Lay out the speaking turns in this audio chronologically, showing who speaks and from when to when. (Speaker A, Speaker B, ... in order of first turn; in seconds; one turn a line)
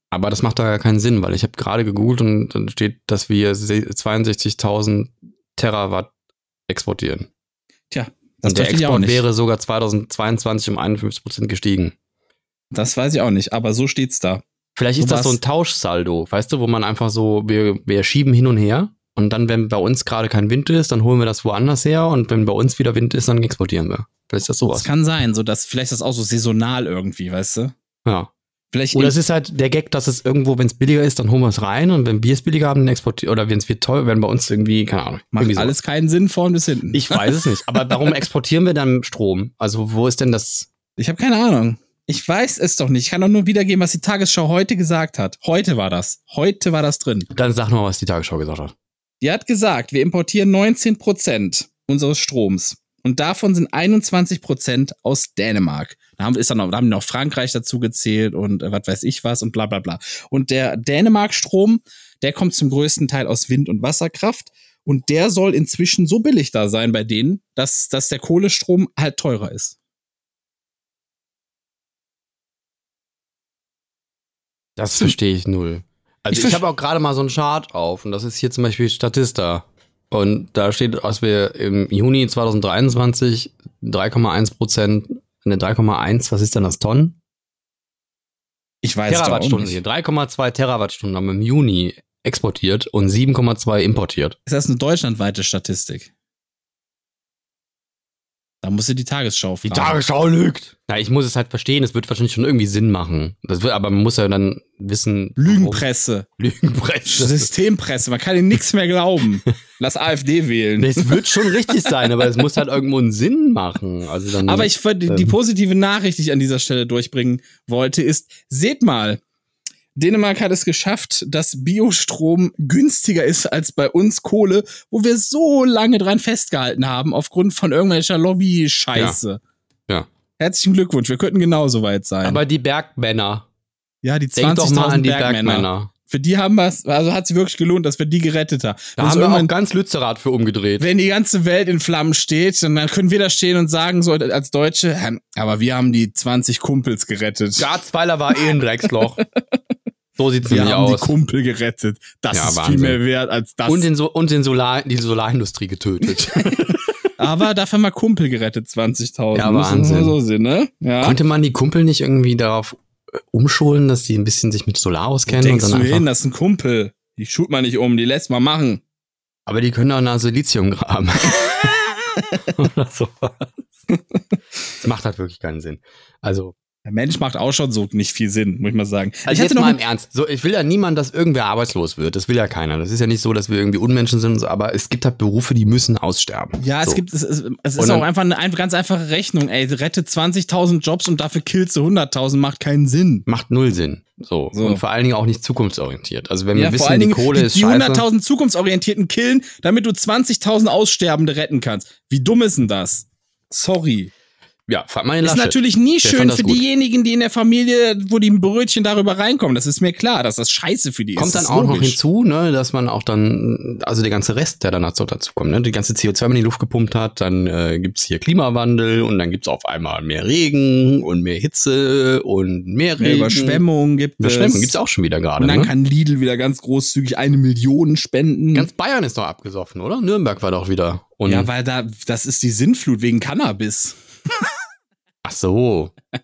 Speaker A: 0.1-6.1
Speaker A: 6.7-7.3
Speaker B: 7.9-9.2
Speaker A: 8.4-11.9
Speaker B: 12.7-14.4
Speaker A: 14.8-24.9
Speaker B: 15.0-15.4
Speaker B: 24.8-27.7
Speaker A: 28.1-28.3
Speaker B: 28.7-29.1
Speaker A: 28.9-35.8
Speaker B: 35.3-37.4
Speaker A: 36.9-40.7
Speaker B: 41.0-47.3
Speaker A: 47.3-48.7
Speaker B: 49.2-69.8
Speaker A: 74.8-87.2
Speaker B: 76.3-76.6
Speaker B: 88.8-89.8
Speaker A: 89.1-94.4
Speaker B: 94.5-96.1
Speaker B: 98.6-100.0
Speaker A: 99.7-105.8
Speaker B: 105.4-106.3
Speaker A: 106.4-107.5
Speaker B: 107.1-111.9
Speaker A: 110.8-115.3
Speaker B: 114.4-119.2
Speaker B: 120.0-129.4
Speaker A: 128.9-129.2
Speaker B: 130.4-132.4
Speaker A: 132.2-133.5
Speaker B: 134.0-139.5
Speaker A: 134.4-135.9
Speaker A: 139.0-140.9
Speaker B: 140.8-147.7
Speaker A: 147.6-149.2
Speaker A: 150.2-151.1
Speaker B: 150.4-153.9
Speaker A: 152.3-153.0
Speaker A: 153.7-156.8
Speaker B: 157.2-161.2
Speaker A: 159.3-160.2
Speaker A: 161.0-166.1
Speaker B: 165.3-168.8
Speaker A: 169.5-171.8
Speaker A: 172.5-173.5
Speaker A: 174.8-176.6
Speaker B: 176.9-179.8
Speaker A: 179.3-187.0
Speaker B: 186.6-193.2
Speaker A: 187.8-188.1
Speaker A: 193.3-198.1
Speaker B: 194.5-194.8
Speaker B: 196.5-204.1
Speaker A: 204.7-206.6
Speaker B: 205.2-212.0
Speaker A: 211.2-223.6
Speaker B: 223.0-224.8
Speaker A: 224.2-225.7
Speaker B: 225.4-228.7
Speaker A: 228.5-231.5
Speaker B: 231.3-234.0
Speaker A: 235.2-235.9